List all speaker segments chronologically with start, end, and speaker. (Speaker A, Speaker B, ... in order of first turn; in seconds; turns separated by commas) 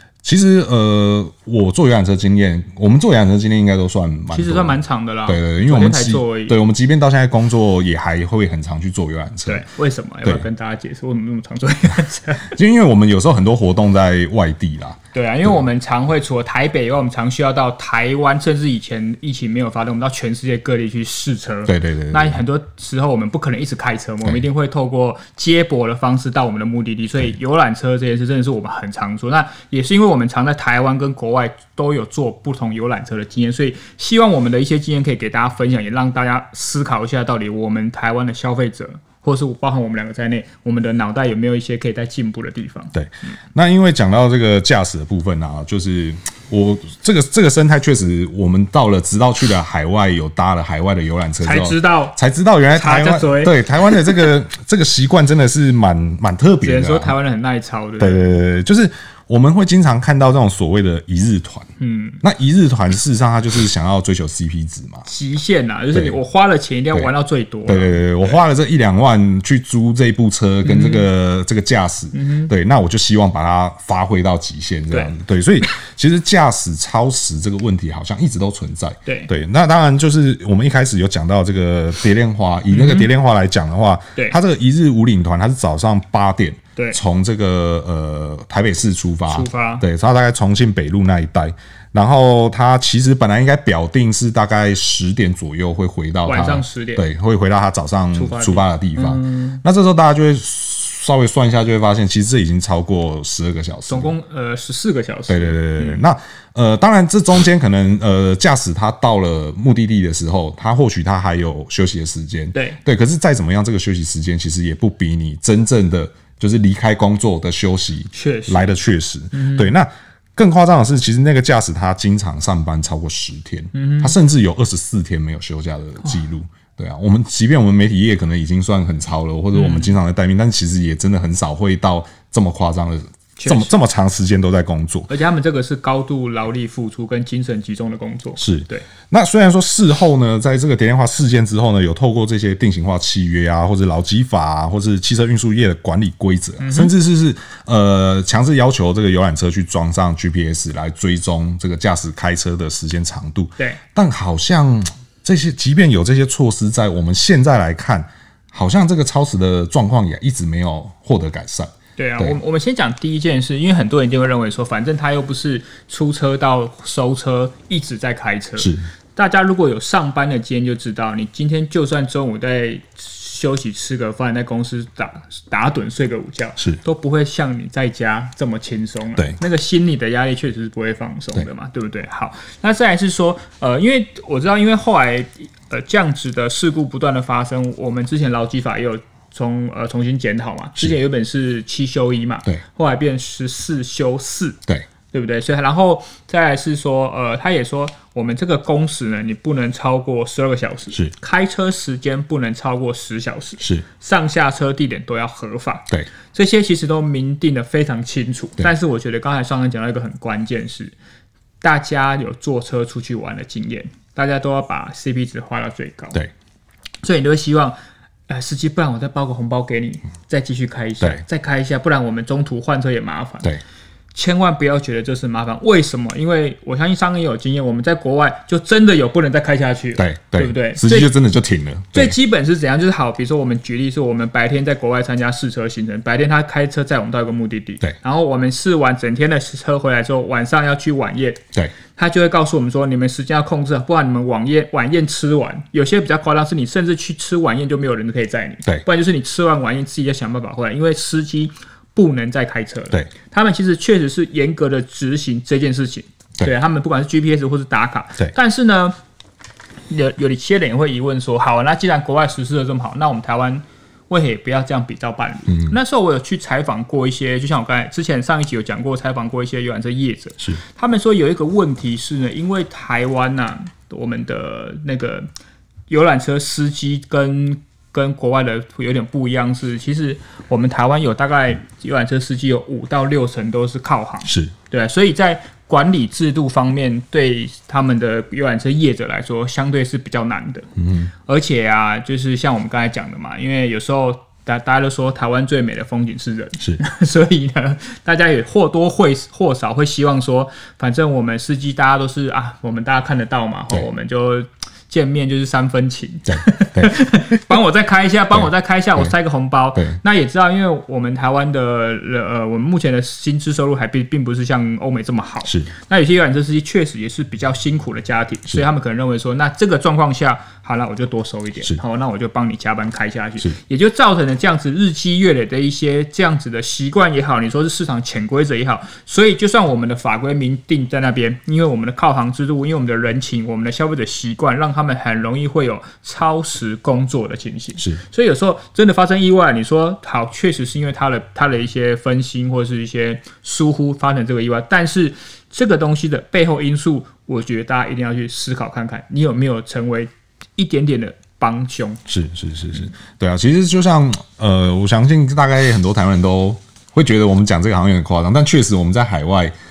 Speaker A: 0.2-9.7, Speaker B: 4.3-6.6, Speaker B: 9.5-12.6, Speaker A: 12.5-15.6, Speaker B: 15.1-42.9, Speaker A: 21.7-22.4, Speaker A: 43.0-57.1, Speaker B: 51.4-52.2, Speaker B: 52.7-54.0, Speaker B: 56.6-58.3, Speaker A: 58.0-61.7, Speaker B: 61.8-62.2, Speaker A: 62.2-65.0, Speaker B: 65.0-68.4, Speaker A: 67.7-104.1, Speaker B: 70.7-71.0, Speaker B: 72.1-72.5, Speaker B: 79.1-79.3, Speaker B: 82.7-83.1, Speaker B: 89.3-89.8, Speaker B: 96.3-97.0, Speaker B: 98.1-99.6, Speaker B: 103.9-106.0, Speaker A: 105.3-135.1, Speaker B: 112.5-112.8, Speaker B: 118.1-118.7, Speaker B: 119.3-119.7, Speaker B: 123.7-124.1, Speaker B: 129.5-129.9, Speaker B: 133.4-133.7, Speaker B: 135.1-138.9, Speaker A: 138.4-162.4, Speaker B: 146.6-146.9, Speaker B: 162.0-194.6, Speaker A: 168.6-168.9, Speaker B: 195.1-210.9, Speaker B: 211.6-216.2, Speaker B: 217.0-217.8, Speaker B: 218.3-223.5, Speaker B: 224.2-231.1, Speaker A: 230.0-232.2, Speaker B: 231.9-241.4, Speaker B: 241.9-259.0, Speaker B: 259.9-275.3, Speaker A: 265.5-265.8, Speaker B: 275.9-290.7, Speaker A: 284.2-284.5, Speaker A: 290.8-291.1, Speaker B: 291.2-352.0, Speaker A: 306.3-306.9, Speaker A: 308.3-309.1, Speaker A: 352.1-359.5